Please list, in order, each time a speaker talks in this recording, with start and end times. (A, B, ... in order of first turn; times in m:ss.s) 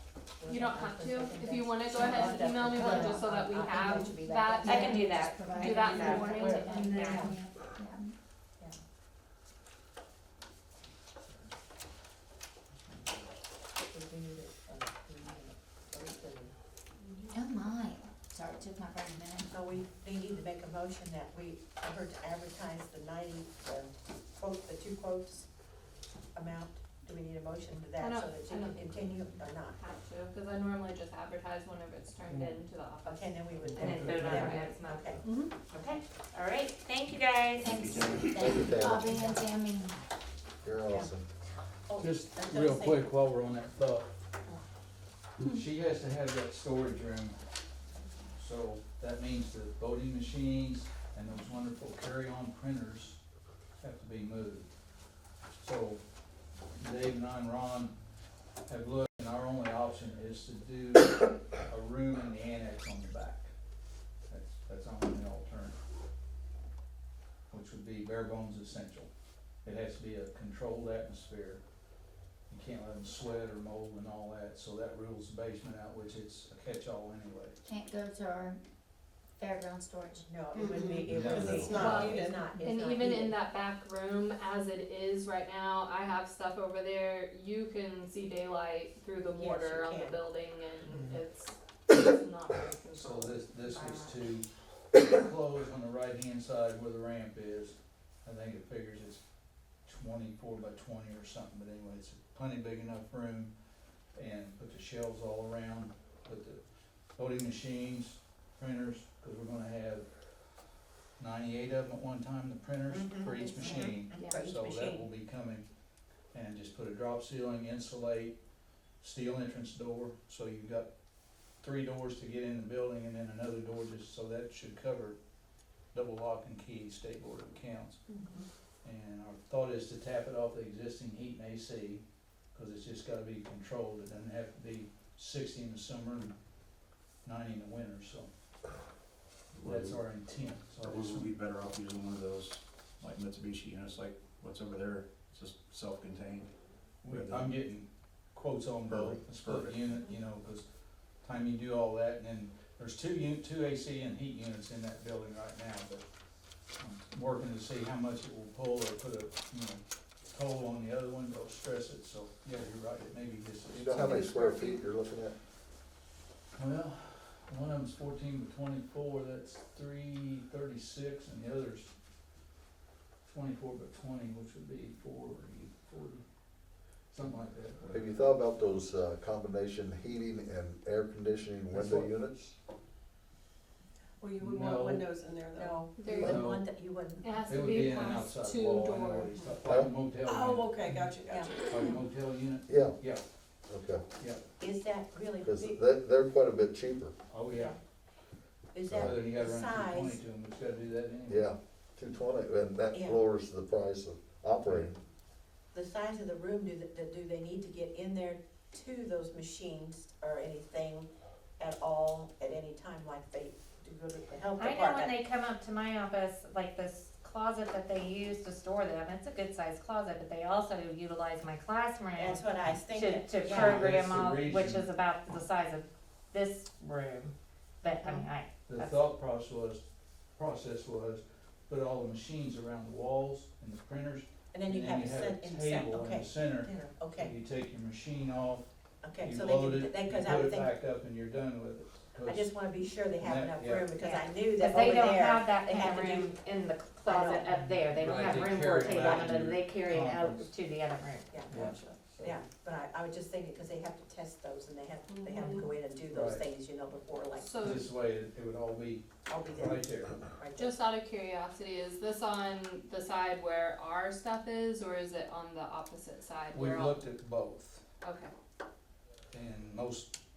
0:00.4-0:04.2 A
0:00.5-0:07.4 B
0:02.0-0:07.4 C
0:02.8-0:03.1 D
0:04.0-0:08.1 D
0:06.0-0:07.4 A
0:13.8-0:16.5 A
0:17.3-0:19.5 D
0:19.4-0:25.5 A
0:26.3-0:29.8 A
0:28.0-0:29.2 B
0:29.8-0:35.5 B
0:32.3-0:32.6 E
0:33.0-0:35.2 A
0:33.7-0:34.6 E
0:33.8-0:37.8 C
0:37.6-0:38.6 F
0:37.6-0:40.0 D
0:38.3-0:39.2 G
0:38.3-0:39.4 A
0:40.6-0:41.3 G
0:40.9-0:41.2 A
0:41.9-0:43.1 A
0:42.0-0:44.1 E
0:45.4-0:47.4 E
0:48.4-0:53.2 E
0:53.8-0:54.7 E
0:55.6-0:56.0 E
0:56.8-0:57.9 E
0:58.7-1:03.5 E
1:04.3-1:05.8 E
1:07.5-1:09.1 E
1:09.6-1:11.6 E
1:12.5-1:17.6 E
1:17.6-1:18.6 D
1:19.4-1:20.2 D
1:20.2-1:23.4 A
1:20.6-1:22.3 H
1:21.1-1:21.7 E
1:21.4-1:21.7 G
1:21.7-1:34.2 B
1:29.3-1:30.2 A
1:32.9-1:39.2 E
1:39.9-1:43.5 E
1:44.2-1:46.6 E
1:47.2-1:50.1 E
1:51.2-1:55.6 E
1:52.9-1:55.1 A
1:56.3-1:58.4 E
1:59.0-2:00.9 E
2:01.6-2:05.2 E
2:05.9-2:08.0 E
2:08.8-2:16.4 E
2:17.2-2:18.3 E
2:19.6-2:19.9 G
2:19.6-2:21.4 E
2:20.8-2:26.5 F
2:27.0-2:30.7 E
2:27.1-2:27.5 F
2:29.3-2:29.9 F
2:31.2-2:36.0 E
2:36.8-2:44.7 E
2:43.7-2:45.4 G
2:46.6-2:51.9 E
2:53.2-2:56.2 E
2:57.1-2:58.1 E
2:57.9-3:02.6 G
3:01.7-3:02.1 E
3:04.2-3:05.9 H
3:04.4-3:05.0 E
3:04.6-3:05.0 A
3:05.5-3:07.4 A
3:06.0-3:06.4 B
3:06.2-3:06.7 E
3:07.2-3:09.5 B
3:07.4-3:11.1 E
3:09.7-3:09.9 G
3:10.2-3:11.6 H
3:11.7-3:13.2 E
3:12.7-3:13.0 G
3:13.7-3:14.0 G
3:14.2-3:14.5 E
3:14.6-3:15.8 A
3:15.4-3:17.1 G
3:17.3-3:17.8 E
3:18.7-3:20.2 A
3:18.9-3:19.2 G
3:18.9-3:21.5 E
3:21.3-3:25.0 G
3:22.9-3:23.2 A
3:25.7-3:35.1 A
3:34.6-3:49.0 C
3:42.2-3:43.9 A
3:43.4-3:44.9 E
3:48.7-3:49.8 E
3:50.4-4:02.6 E
3:54.5-3:57.4 A
3:59.0-4:00.7 A
4:02.2-4:06.3 A
4:03.2-4:03.9 E
4:04.0-4:11.3 C
4:07.0-4:07.8 A
4:07.9-4:10.5 E
4:11.3-4:17.8 A
4:11.5-4:12.4 E
4:15.1-4:15.7 B
4:16.0-4:16.5 E
4:17.4-4:17.8 B
4:17.6-4:20.3 E
4:19.3-4:20.8 A
4:20.6-4:27.0 B
4:26.5-4:27.8 E
4:28.0-4:28.3 B
4:29.3-4:30.1 E